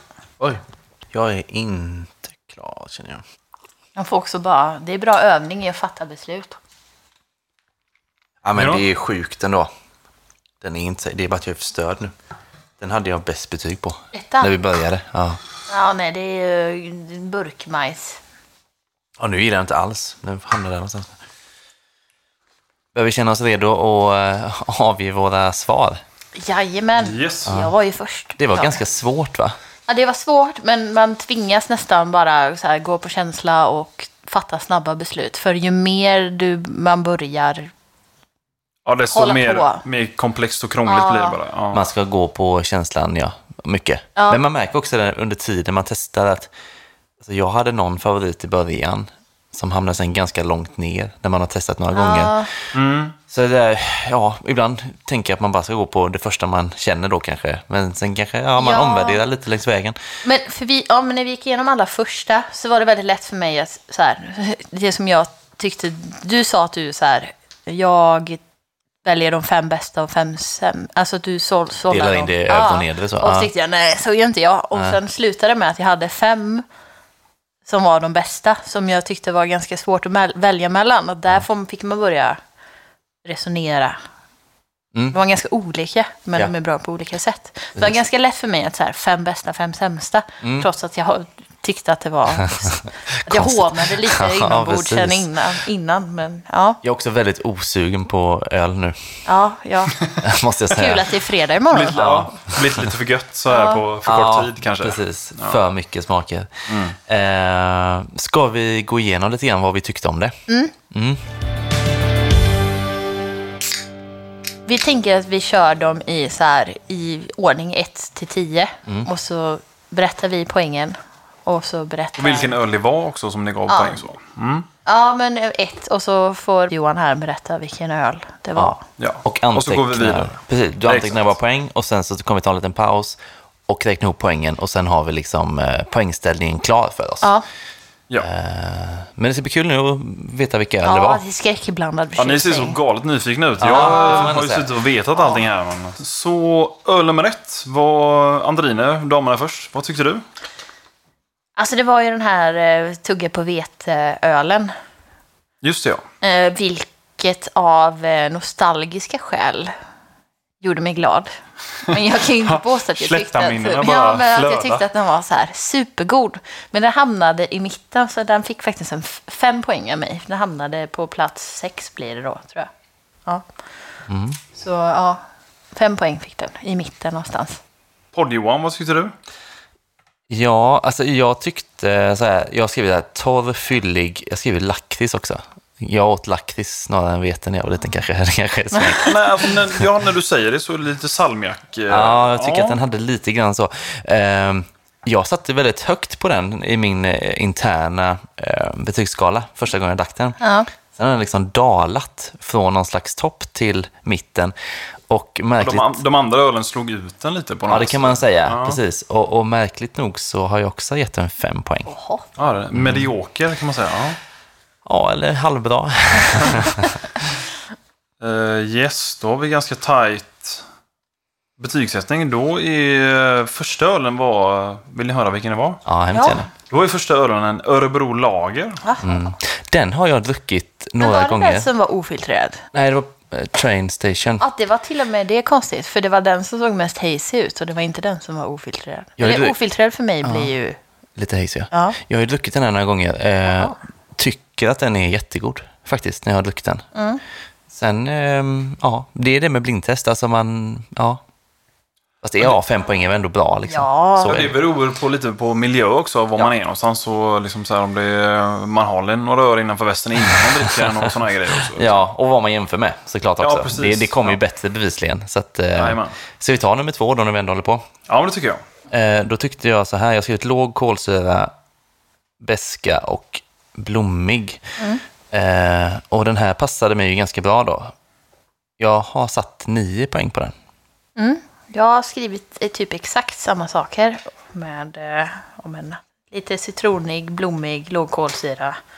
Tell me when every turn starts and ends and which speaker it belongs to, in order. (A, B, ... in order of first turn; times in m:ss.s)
0:00.4-0:03.2 A
0:04.0-0:06.6 B
0:08.4-0:09.7 A
0:08.5-0:08.8 C
0:10.6-0:12.1 A
0:12.8-0:15.4 A
0:14.1-0:14.5 B
0:15.7-0:18.2 B
0:19.2-0:21.1 A
0:22.9-0:26.0 A
0:26.4-0:28.8 B
0:27.0-0:27.6 C
0:27.4-0:27.7 A
0:28.4-0:29.5 A
0:29.9-0:37.7 B
0:38.8-0:41.8 C
0:39.1-0:39.8 B
0:40.8-0:41.4 B
0:41.7-0:46.5 A
0:44.2-0:44.4 B
0:47.2-0:52.6 A
0:51.9-0:52.5 B
0:52.7-0:53.2 C
0:53.3-1:00.0 A
0:58.6-0:59.2 B
1:00.2-1:08.4 B
1:09.0-1:16.6 B
1:11.9-1:13.5 A
1:17.6-1:22.4 B
1:23.2-1:24.0 B
1:25.1-1:36.8 B
1:30.4-1:30.7 A
1:32.7-1:35.3 A
1:36.8-1:39.2 A
1:39.2-1:40.0 B
1:40.2-1:41.1 A
1:40.7-1:42.1 B
1:41.7-1:45.6 C
1:42.0-1:42.6 A
1:43.5-1:43.8 B
1:44.0-1:50.3 A
1:46.7-1:47.0 C
1:50.5-1:50.7 B
1:50.9-1:51.2 A
1:54.7-2:02.5 B
2:02.2-2:04.7 C
2:03.7-2:04.0 B
2:04.8-2:08.8 B
2:08.6-2:17.3 A
2:09.0-2:11.3 C
2:18.2-2:21.2 A
2:20.8-2:22.8 B
2:22.2-2:30.2 C
2:23.6-2:24.7 A
2:23.7-2:24.3 B
2:31.6-2:34.7 B
2:35.6-2:36.0 C
2:36.2-2:39.7 B
2:40.6-2:52.7 B
2:42.5-2:44.8 C
2:54.1-2:54.4 A
2:54.5-2:55.2 B
2:55.7-2:57.6 B
2:58.1-2:59.1 C
3:00.3-3:09.5 A
3:09.0-3:12.8 C
3:11.9-3:20.4 A
3:20.4-3:20.7 B
3:20.9-3:24.5 A
3:25.1-3:26.0 A
3:25.6-3:28.8 C
3:27.7-3:31.9 A
3:31.8-3:32.2 B
3:32.4-3:34.2 C
3:32.7-3:33.1 A
3:34.8-3:37.0 A
3:38.2-3:40.6 C
3:41.6-3:45.8 C
3:45.8-3:46.5 A
3:46.1-3:46.5 B
3:46.7-3:48.8 C
3:48.8-3:49.2 B
3:49.0-3:51.7 A
3:51.0-3:52.6 B
3:52.7-3:54.4 A
3:54.4-4:00.8 B
3:59.2-3:59.6 A
4:00.2-4:00.5 A
4:01.2-4:06.8 A
4:01.7-4:02.0 B
4:03.5-4:03.7 B
4:06.9-4:07.2 B
4:07.7-4:11.2 A
4:12.2-4:14.6 A
4:13.7-4:14.5 B
4:14.2-4:22.0 C
4:20.7-4:21.1 A
4:21.7-4:27.9 A
4:23.4-4:24.4 C
4:25.7-4:26.2 C
4:28.1-4:28.6 C
4:28.9-4:31.5 A
4:32.4-4:34.6 A
4:35.3-4:37.9 A
4:38.8-4:40.5 A
4:41.2-4:48.8 B